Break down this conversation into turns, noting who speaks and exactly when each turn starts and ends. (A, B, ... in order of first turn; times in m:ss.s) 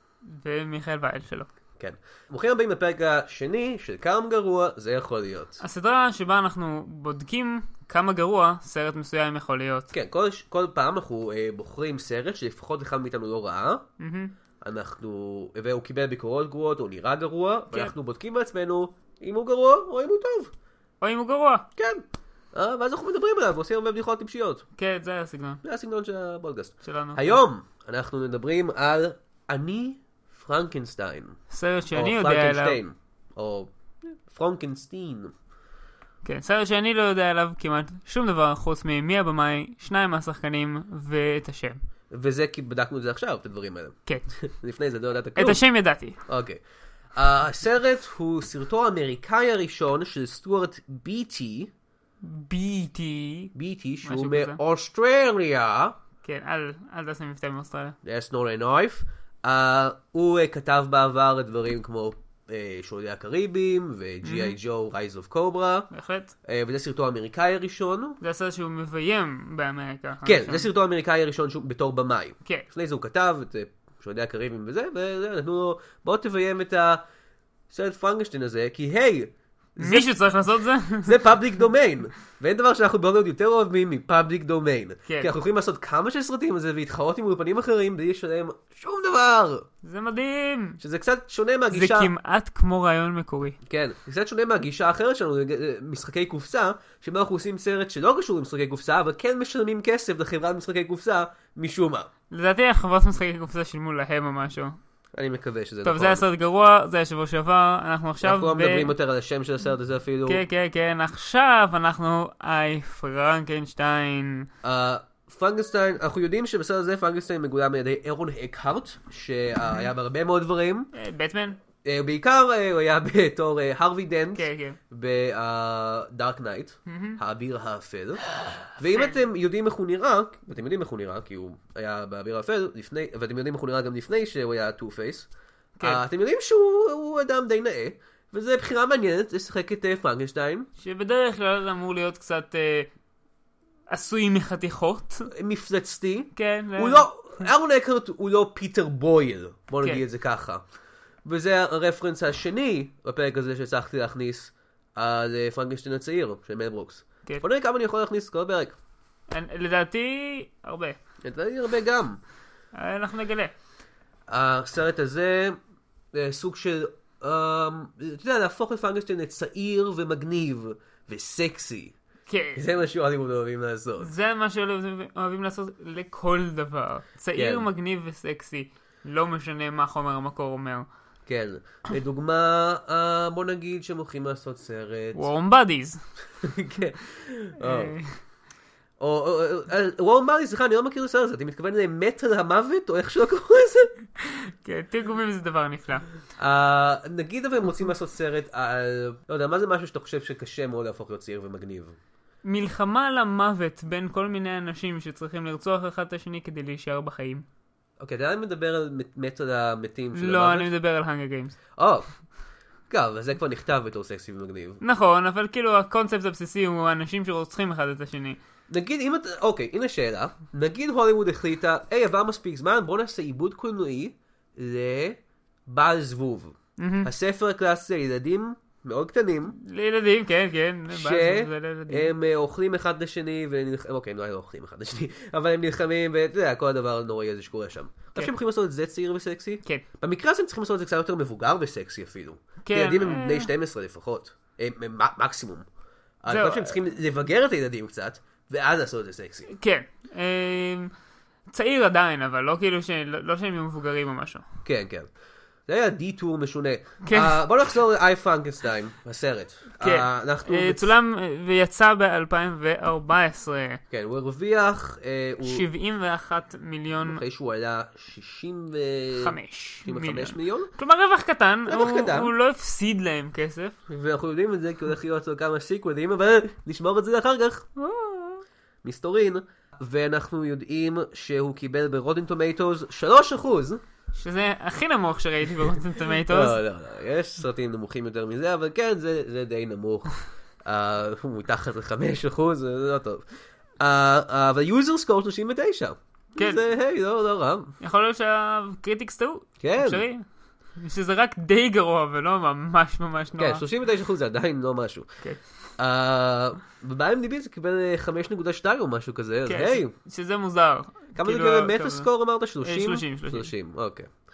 0:00.3-0:01.5 A
0:01.8-0:05.6 B
0:05.6-0:09.9 A
0:09.9-0:13.8 B
0:14.0-0:14.3 A
0:14.6-0:20.5 B
0:21.0-0:21.6 A
0:21.8-0:24.6 B
0:24.8-0:25.6 A
0:25.6-0:31.4 B
0:26.8-0:27.4 A
0:31.5-0:32.8 A
0:31.9-0:35.3 B
0:36.2-0:41.8 A
0:42.1-0:45.6 B
0:45.4-0:46.2 A
0:46.2-0:46.6 B
0:47.2-0:51.7 B
0:52.2-0:53.5 A
0:53.6-0:56.0 B
0:54.0-0:54.6 A
0:56.2-0:58.0 A
0:58.0-1:05.9 B
1:04.2-1:04.6 A
1:05.9-1:06.3 A
1:06.5-1:08.2 B
1:08.2-1:10.7 A
1:10.2-1:17.0 B
1:17.7-1:20.1 B
1:19.8-1:21.2 A
1:21.0-1:29.6 B
1:25.1-1:25.3 A
1:29.8-1:30.8 A
1:30.8-1:32.1 B
1:31.7-1:33.6 A
1:33.7-1:42.1 B
1:42.3-1:44.8 A
1:45.1-1:46.2 B
1:45.8-1:48.9 A
1:48.2-1:50.4 B
1:50.3-1:54.5 A
1:54.6-2:00.9 B
2:00.9-2:01.6 A
2:01.8-2:08.2 B
2:04.4-2:04.8 A
2:06.9-2:07.2 A
2:08.8-2:15.3 B
2:08.8-2:09.2 A
2:15.8-2:20.7 B
2:20.8-2:22.9 A
2:23.9-2:25.3 A
2:25.3-2:30.6 B
2:26.4-2:27.5 A
2:31.2-2:38.8 B
2:39.3-2:41.0 A
2:41.2-2:42.2 B
2:42.8-2:43.5 A
2:44.3-2:45.6 B
2:46.1-2:52.0 B
2:52.3-2:52.6 A
2:52.6-2:54.1 B
2:54.0-3:00.9 A
2:57.4-2:57.7 B
3:01.3-3:05.2 B
3:05.2-3:06.0 A
3:06.4-3:07.9 B
3:07.6-3:08.1 A
3:09.0-3:13.9 B
3:14.2-3:16.0 A
3:16.4-3:22.0 B
3:22.4-3:27.4 A
3:28.0-3:30.7 B
3:30.2-3:31.6 A
3:31.8-3:32.1 B
3:32.9-3:34.8 B
3:34.8-3:38.4 A
3:38.7-3:49.6 B
3:46.8-3:47.1 A
3:49.6-3:52.1 A
3:50.9-4:05.7 B
4:02.6-4:03.5 A
4:06.2-4:09.5 B
4:06.3-4:06.7 A
4:09.5-4:10.9 A
4:11.5-4:14.4 A
4:14.6-4:15.1 B
4:15.7-4:20.9 B
4:17.0-4:17.4 A
4:19.8-4:23.8 A
4:23.9-4:25.6 B
4:25.4-4:27.2 A
4:27.0-4:30.7 B
4:29.2-4:33.7 A
4:31.7-4:32.3 B
4:33.9-4:37.6 B
4:37.8-4:38.4 A
4:38.8-4:43.8 B
4:44.2-4:46.6 A
4:46.3-4:53.2 B
4:53.8-4:57.7 B
4:57.8-5:00.2 A
4:59.6-5:00.0 B
5:00.8-5:03.6 A
5:03.4-5:05.1 B
5:05.8-5:09.9 B
5:09.5-5:12.1 A
5:11.2-5:14.1 B
5:12.6-5:13.5 A